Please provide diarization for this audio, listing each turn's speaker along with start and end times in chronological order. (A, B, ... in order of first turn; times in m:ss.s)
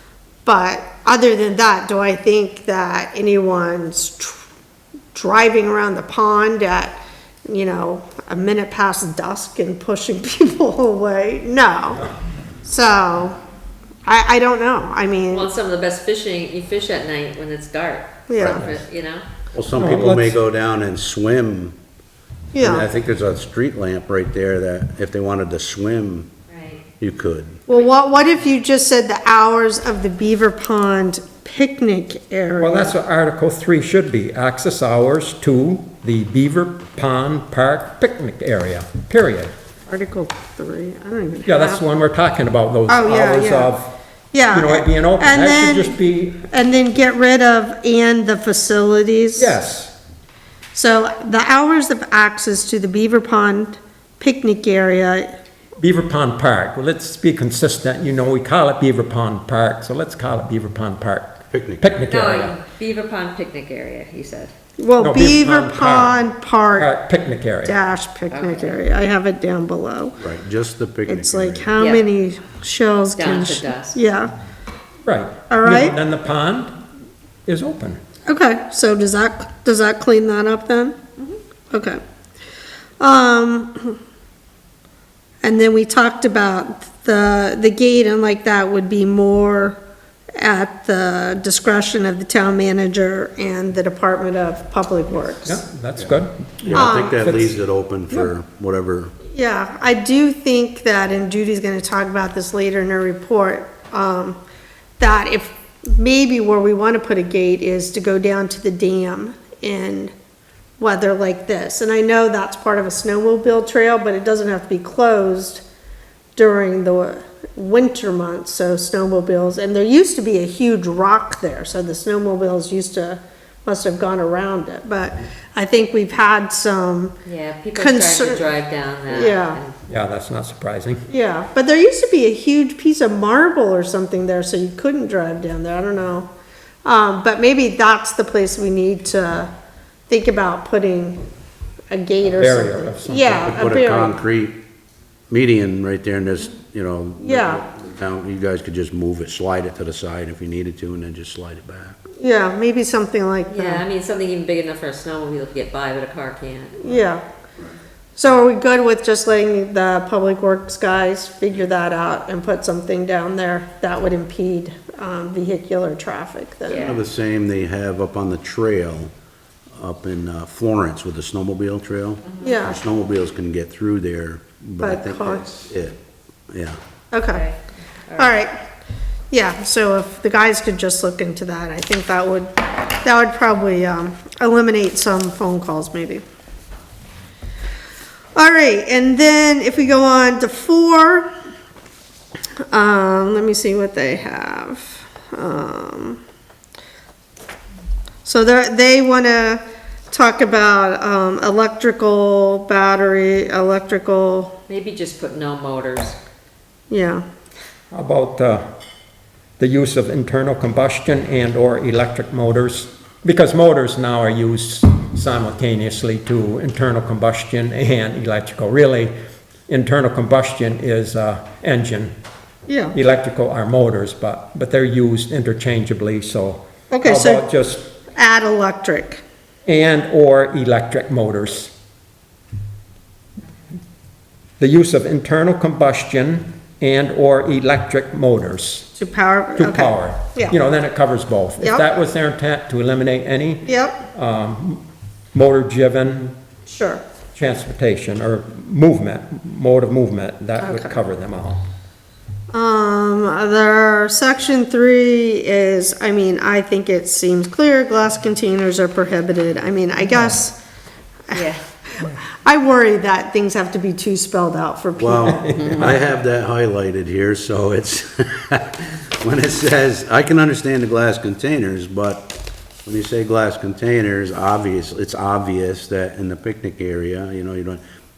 0:00.4-0:04.4 A
0:05.1-0:12.0 A
0:12.6-0:13.4 A
0:14.1-0:15.5 A
0:15.3-0:19.2 B
0:18.3-0:18.7 A
0:18.4-0:18.8 C
0:19.5-0:21.8 D
0:19.8-0:20.4 C
0:22.5-0:22.9 A
0:22.6-0:26.3 D
0:26.5-0:26.8 B
0:27.0-0:27.6 D
0:27.7-0:33.0 A
0:32.6-0:39.5 C
0:39.9-0:41.8 A
0:41.5-0:44.0 C
0:42.9-0:43.7 A
0:44.3-0:49.6 A
0:44.5-0:46.5 C
0:49.4-0:50.0 C
0:50.7-0:55.3 A
0:55.8-1:02.5 C
1:01.5-1:01.9 D
1:02.1-1:04.5 B
1:04.8-1:06.9 A
1:05.0-1:06.2 C
1:06.8-1:07.8 C
1:07.6-1:10.2 A
1:08.3-1:08.8 B
1:10.2-1:11.8 D
1:11.1-1:14.3 A
1:11.8-1:12.0 B
1:13.2-1:14.0 B
1:15.0-1:16.7 C
1:15.5-1:16.0 A
1:17.5-1:18.0 C
1:18.3-1:21.0 A
1:21.7-1:22.0 A
1:23.0-1:24.0 A
1:25.4-1:29.8 A
1:30.4-1:35.6 A
1:35.4-1:37.5 C
1:36.7-1:39.1 D
1:36.7-1:37.3 A
1:39.3-1:44.4 A
1:45.0-1:50.1 A
1:50.8-1:55.6 A
1:56.4-2:07.2 A
2:07.2-2:09.7 B
2:07.7-2:08.5 A
2:09.1-2:09.6 A
2:09.9-2:11.0 C
2:11.1-2:16.3 A
2:16.8-2:19.5 A
2:20.1-2:21.2 A
2:21.9-2:24.2 A
2:22.3-2:23.5 C
2:23.4-2:24.6 D
2:25.3-2:32.0 D
2:27.2-2:27.6 A
2:32.2-2:33.8 A
2:33.5-2:37.0 B
2:36.8-2:37.2 A
2:38.2-2:47.0 A
2:46.7-2:47.0 B
2:46.7-2:49.1 D
2:49.8-2:56.0 D
2:52.3-2:52.6 B
2:52.4-2:52.8 A
2:54.8-2:55.5 A
2:56.5-2:56.8 D
2:57.1-2:57.5 A
2:57.3-2:58.4 B
2:58.2-2:58.6 A
2:59.3-3:06.2 A
3:08.4-3:11.3 A
3:12.7-3:16.2 A
3:18.2-3:24.5 A
3:24.7-3:26.2 B
3:26.9-3:27.2 A
3:27.9-3:28.6 C
3:29.6-3:39.1 C
3:39.7-3:42.2 C
3:42.7-3:43.0 A
3:42.9-3:47.9 C
3:46.9-3:47.4 A
3:48.2-3:49.2 A
3:49.7-3:51.7 C
3:54.6-3:58.9 C
3:59.0-4:00.6 A
3:59.6-4:04.8 C
4:03.6-4:04.0 A
4:05.3-4:06.4 C
4:06.7-4:07.0 A
4:07.4-4:11.7 C
4:10.6-4:11.0 A
4:12.5-4:20.6 A
4:21.3-4:25.6 A
4:21.3-4:21.6 B
4:25.0-4:32.4 D
4:25.4-4:26.0 C
4:32.9-4:37.8 D